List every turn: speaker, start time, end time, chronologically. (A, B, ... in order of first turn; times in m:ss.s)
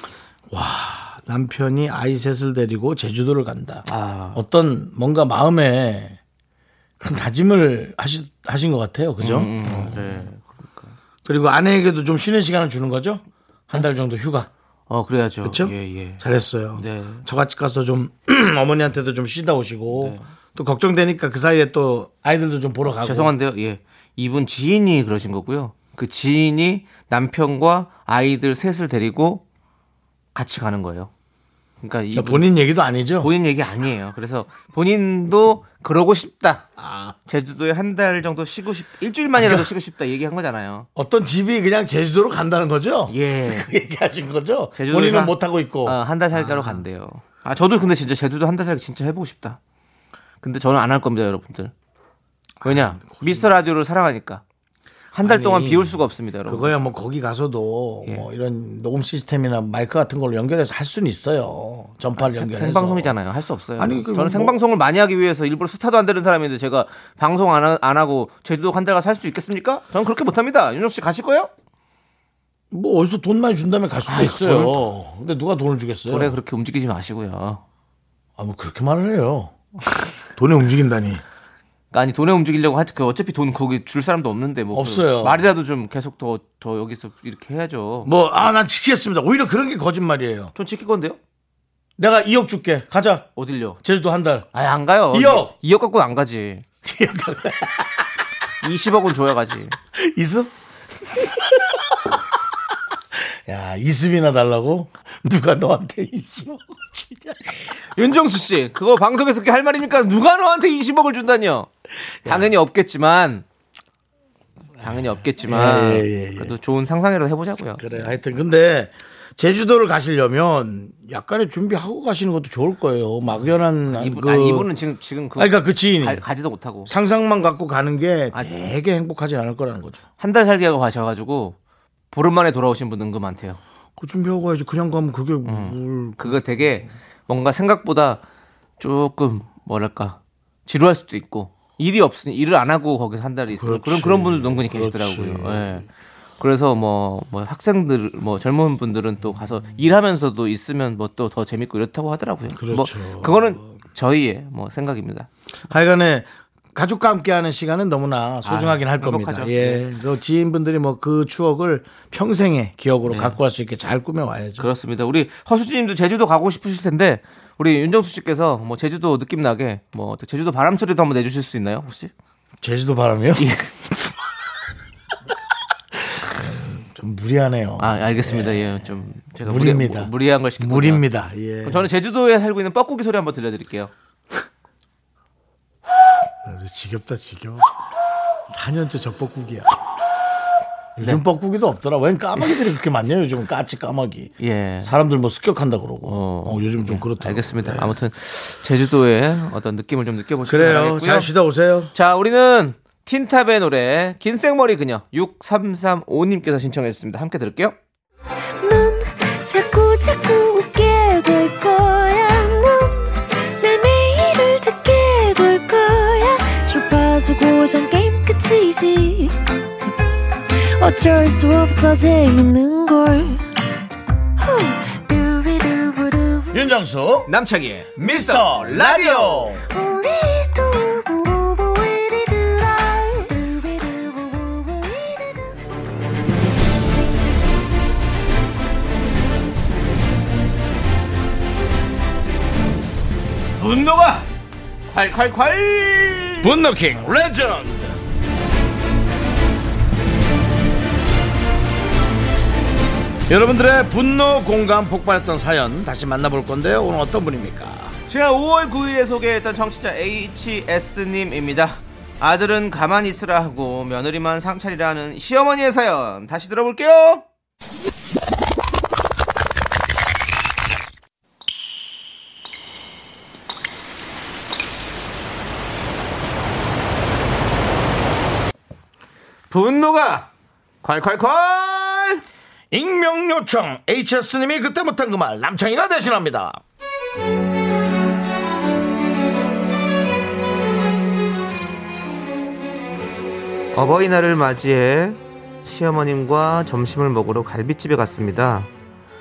0:00.5-0:06.2 A
0:03.9-0:04.4 B
0:07.0-0:10.3 A
0:09.2-0:11.0 B
0:11.2-0:14.5 A
0:14.9-0:16.2 B
0:15.4-0:23.3 A
0:16.8-0:17.2 B
0:19.9-0:20.3 B
0:22.9-0:29.4 B
0:30.3-0:31.1 B
0:31.8-0:32.5 B
0:32.1-0:33.3 A
0:33.2-0:36.7 B
0:36.8-0:37.2 A
0:37.3-0:40.9 B
0:39.4-0:39.7 A
0:41.0-0:46.8 A
0:43.1-0:43.7 B
0:44.8-0:49.6 B
0:50.4-0:51.7 B
0:52.6-0:53.5 A
0:52.6-0:54.4 B
0:55.1-0:56.8 B
0:55.2-1:03.1 A
1:02.2-1:11.5 B
1:03.8-1:04.6 A
1:12.7-1:16.4 A
1:14.1-1:14.8 B
1:16.1-1:17.6 B
1:18.4-1:19.6 A
1:20.4-1:21.2 A
1:21.9-1:28.1 B
1:24.7-1:25.4 A
1:28.0-1:30.5 A
1:30.6-1:31.2 B
1:32.0-1:33.3 A
1:33.4-1:33.8 B
1:33.8-1:34.5 A
1:34.5-1:36.6 B
1:35.1-1:35.5 A
1:36.8-1:38.1 A
1:38.6-1:39.8 B
1:39.9-1:40.5 A
1:41.1-1:42.2 A
1:43.1-1:47.8 A
1:47.9-1:51.7 B
1:52.2-1:53.4 B
1:52.2-1:52.5 A
1:54.8-1:58.1 B
1:54.9-1:56.5 A
1:57.8-2:04.7 A
2:03.3-2:06.9 B
2:05.4-2:06.2 A
2:06.9-2:10.0 A
2:08.3-2:08.7 B
2:10.2-2:11.6 B
2:12.1-2:13.6 B
2:14.0-2:16.8 A
2:15.5-2:18.2 B
2:18.8-2:35.3 B
2:23.6-2:25.9 A
2:32.5-2:33.7 A
2:35.7-2:44.7 A
2:38.4-2:39.8 B
2:43.1-2:43.4 B
2:44.6-2:52.1 B
2:52.6-2:53.5 A
2:53.4-2:53.7 B
2:56.0-2:58.8 A
2:57.8-3:01.1 B
2:59.4-3:01.9 A
3:01.6-3:03.9 B
3:06.4-3:07.7 A
3:08.5-3:09.8 A
3:11.0-3:18.0 A
3:14.4-3:14.9 B
3:16.0-3:21.3 B
3:20.5-3:21.9 A
3:21.9-3:27.8 B
3:28.6-3:39.9 C
3:40.6-3:43.4 C
3:44.4-3:46.6 C
3:46.5-3:47.3 A
3:47.3-3:49.6 B
3:48.0-3:49.6 A
3:49.7-3:55.6 C
4:03.6-4:04.3 B
4:04.9-4:06.5 B
4:06.4-4:08.0 A
4:13.3-4:18.0 A
4:18.1-4:27.2 B
4:39.5-4:40.3 B
4:40.8-4:42.2 B
4:42.7-4:46.6 A
4:53.7-4:58.7 B